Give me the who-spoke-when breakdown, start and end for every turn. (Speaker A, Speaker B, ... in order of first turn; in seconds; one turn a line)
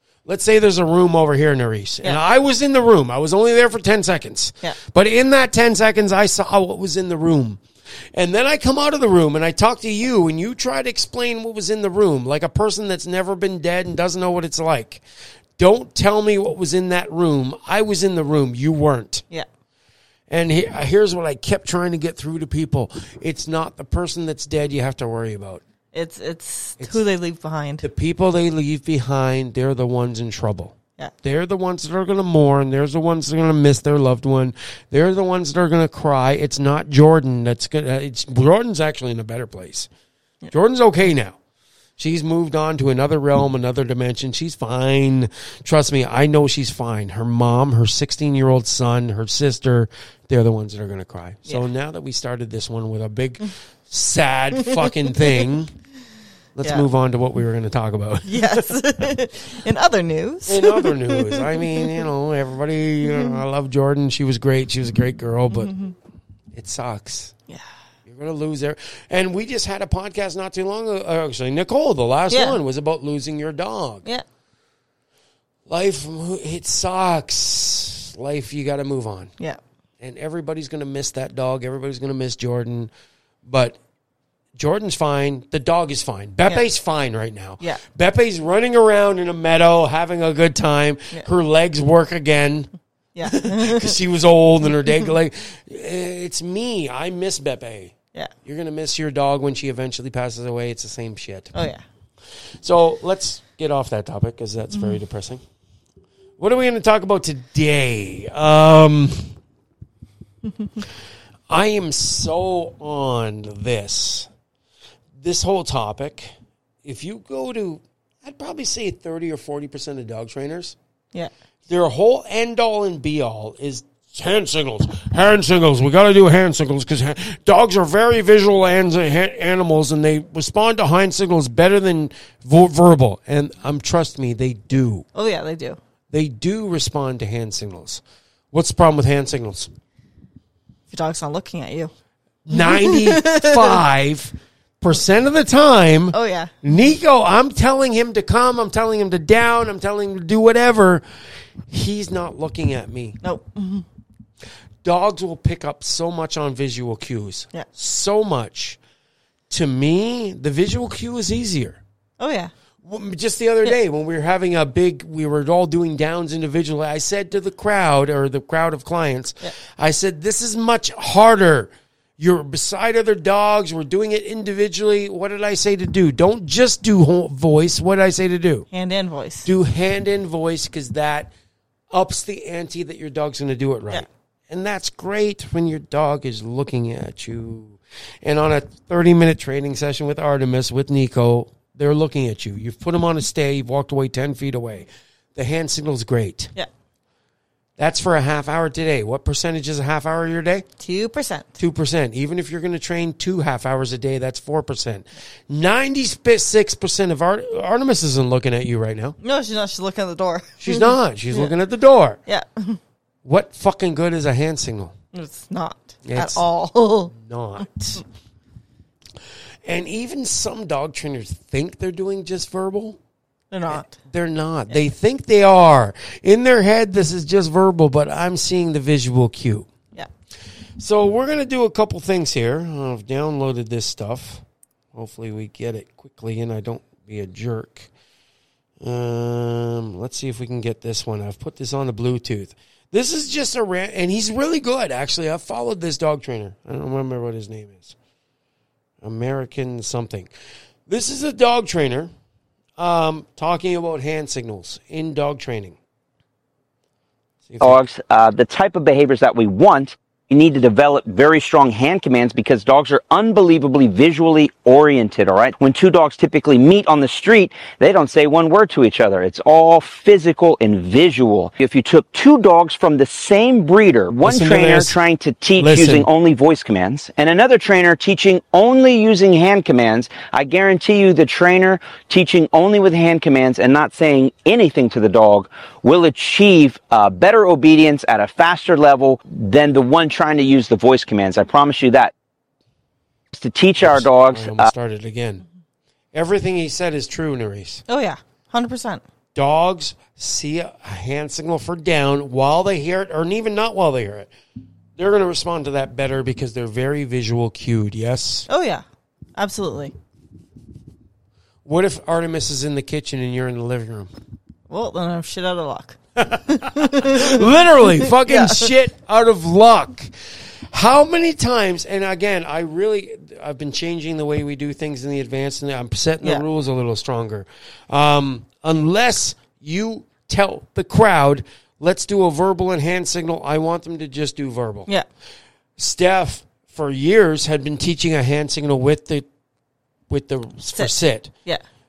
Speaker A: 0.2-7.6
Speaker A: 8.1-15.0
Speaker A: 15.6-19.2
Speaker A: 20.3-25.6
Speaker B: 25.9-27.8
Speaker A: 27.8-39.9
Speaker A: 40.5-41.4
Speaker A: 42.0-55.7
Speaker B: 54.8-55.4
Speaker A: 56.5-58.8
Speaker B: 58.3-62.0
Speaker A: 60.5-65.7
Speaker B: 63.1-63.4
Speaker B: 65.5-65.9
Speaker A: 66.5-67.3
Speaker A: 68.0-74.0
Speaker B: 72.3-72.6
Speaker A: 75.7-79.3
Speaker A: 80.0-82.9
Speaker A: 83.4-83.8
Speaker A: 84.5-92.7
Speaker B: 93.1-94.0
Speaker A: 93.2-97.9
Speaker A: 98.4-101.5
Speaker B: 101.5-101.8
Speaker A: 102.6-105.4
Speaker A: 106.4-109.3
Speaker A: 111.5-114.3
Speaker A: 115.2-116.3
Speaker A: 116.8-120.8
Speaker A: 121.7-135.1
Speaker B: 135.1-135.8
Speaker A: 136.1-139.7
Speaker B: 140.9-141.9
Speaker A: 142.4-151.0
Speaker B: 142.5-143.8
Speaker B: 146.1-146.5
Speaker A: 151.7-153.2
Speaker B: 153.2-153.8
Speaker A: 154.8-158.8
Speaker A: 159.5-161.8
Speaker B: 162.2-162.5
Speaker A: 162.8-178.7
Speaker B: 178.7-179.5
Speaker A: 179.4-181.3
Speaker A: 181.9-196.5
Speaker A: 197.8-200.7
Speaker B: 200.8-201.6
Speaker A: 201.6-209.2
Speaker B: 209.2-211.5
Speaker A: 210.6-212.2
Speaker B: 212.2-212.8
Speaker A: 213.2-214.9
Speaker B: 215.1-217.1
Speaker A: 216.0-216.4
Speaker A: 217.1-218.0
Speaker A: 219.6-223.0
Speaker B: 223.5-223.9
Speaker A: 223.7-229.7
Speaker A: 230.8-234.4
Speaker A: 234.9-237.9
Speaker A: 238.8-247.9
Speaker A: 249.0-250.3
Speaker A: 250.9-252.1
Speaker A: 252.8-255.8
Speaker A: 257.4-257.8
Speaker C: 257.6-292.1
Speaker A: 274.2-274.9
Speaker A: 275.6-276.1
Speaker C: 293.3-294.7
Speaker A: 293.8-295.4
Speaker A: 296.1-297.8
Speaker B: 297.9-299.0
Speaker A: 299.3-304.3
Speaker A: 304.9-308.5
Speaker B: 308.5-308.8
Speaker B: 309.4-309.9
Speaker A: 311.6-314.1
Speaker B: 314.7-318.7
Speaker A: 316.2-320.1
Speaker A: 320.7-334.9
Speaker A: 335.8-339.2
Speaker A: 340.1-341.3